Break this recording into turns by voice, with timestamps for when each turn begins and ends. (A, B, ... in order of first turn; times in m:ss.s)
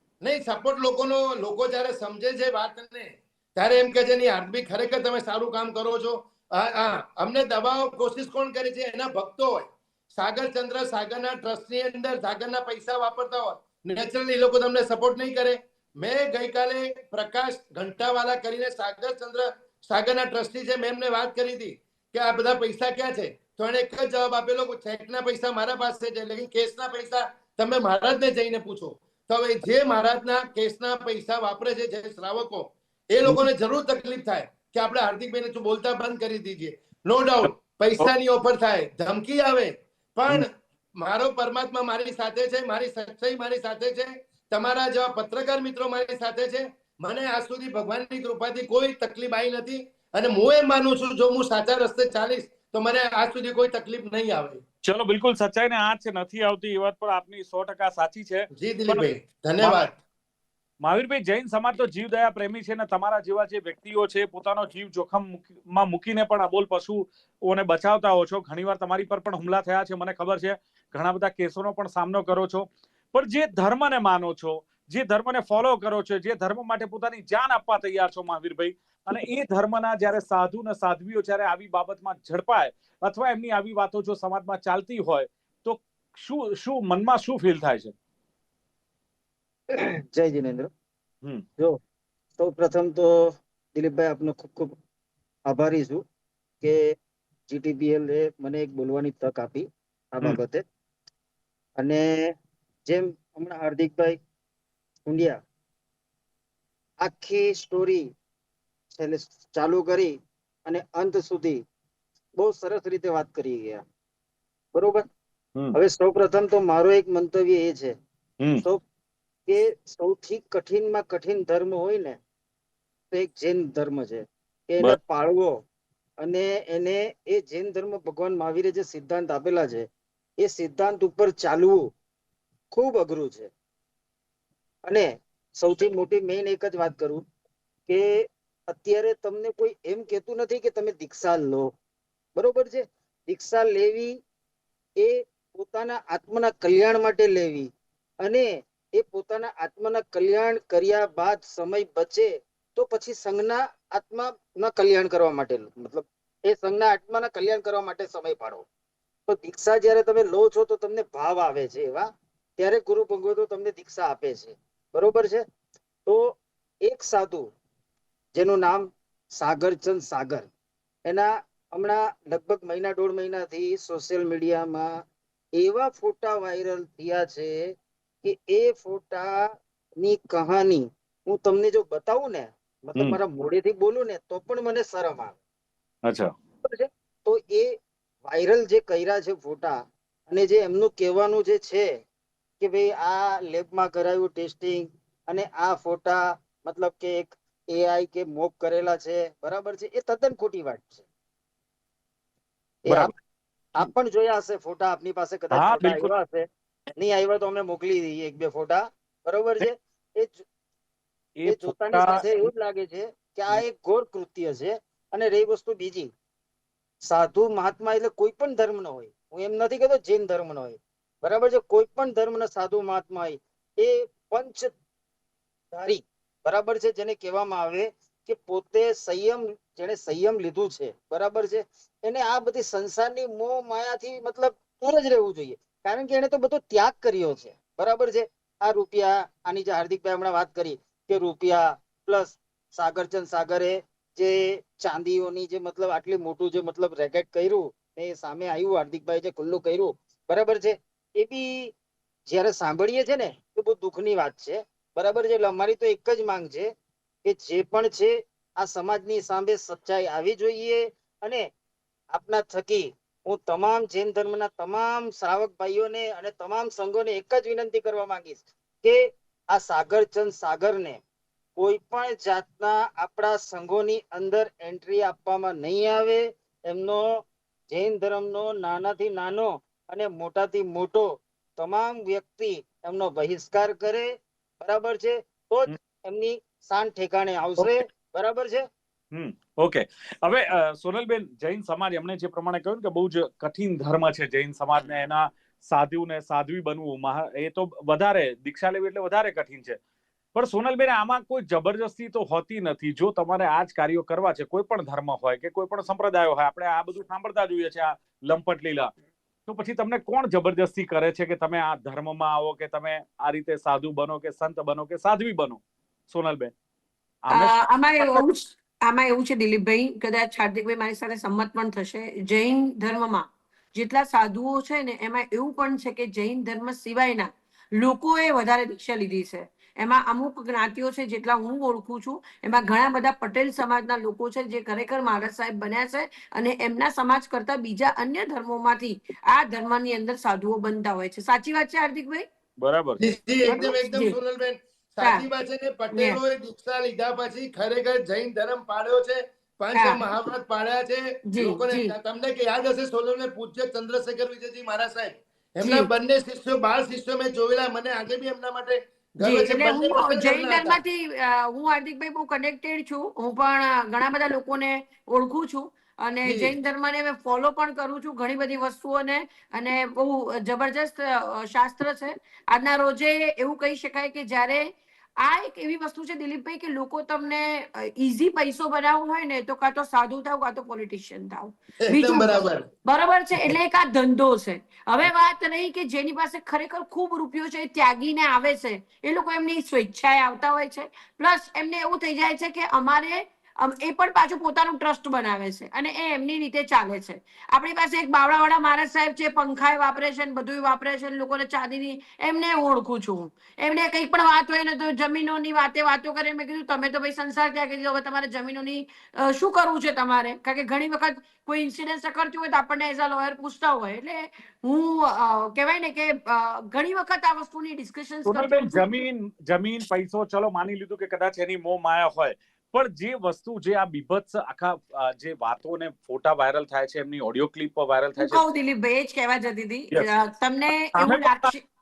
0:00.2-0:40.5 A
0:41.0-0:54.6 A
0:54.8-0:59.1 B
0:58.5-0:59.9 A
1:00.8-1:27.9 B
1:29.7-1:30.7 C
1:32.4-1:33.1 C
1:33.7-1:34.7 C
1:35.5-1:36.0 C
1:37.5-1:40.6 C
1:41.8-1:42.3 C
1:42.8-1:44.2 C
1:45.1-1:45.4 C
1:47.0-1:48.0 C
1:48.9-1:51.6 C
1:52.4-1:53.8 C
1:54.7-1:55.0 C
1:55.7-1:57.9 C
1:59.5-2:02.2 C
2:03.1-2:05.6 C
2:06.2-2:09.9 C
2:10.4-2:11.9 C
2:12.7-2:13.5 C
2:14.8-2:17.2 C
2:17.9-2:21.7 C
2:22.4-2:24.2 C
2:25.0-2:27.7 C
2:28.2-2:38.6 C
2:39.3-2:45.4 C
2:46.0-2:47.5 C
2:48.3-2:50.5 C
2:51.1-2:54.9 C
2:55.6-3:05.4 C
3:06.0-3:06.3 B
3:06.6-3:12.0 C
3:12.6-3:21.0 C
3:22.8-3:23.1 C
3:23.7-3:26.4 C
3:25.5-3:26.1 B
3:27.0-3:30.4 C
3:31.4-3:32.2 B
3:31.5-3:36.1 C
3:37.0-3:44.7 C
3:45.7-4:11.7 C
4:12.3-4:16.7 C
4:17.2-4:21.4 C
4:22.1-4:31.0 C
4:31.6-4:37.1 C
4:37.7-4:48.6 C
4:49.1-4:59.8 B
5:00.3-5:08.9 B
5:09.5-5:16.5 B
5:17.2-5:18.2 B
5:17.3-5:42.2 D
5:42.6-5:43.0 B
5:43.0-6:00.8 A
5:43.4-5:44.1 D
5:45.9-5:46.2 D
5:49.7-5:50.0 D
5:51.3-5:51.9 D
5:55.6-5:55.9 D
5:59.2-6:14.7 D
6:06.2-6:06.5 A
6:15.2-6:58.8 D
6:21.8-6:22.6 A
6:58.2-7:08.4 B
7:08.2-7:11.6 D
7:10.9-7:11.5 B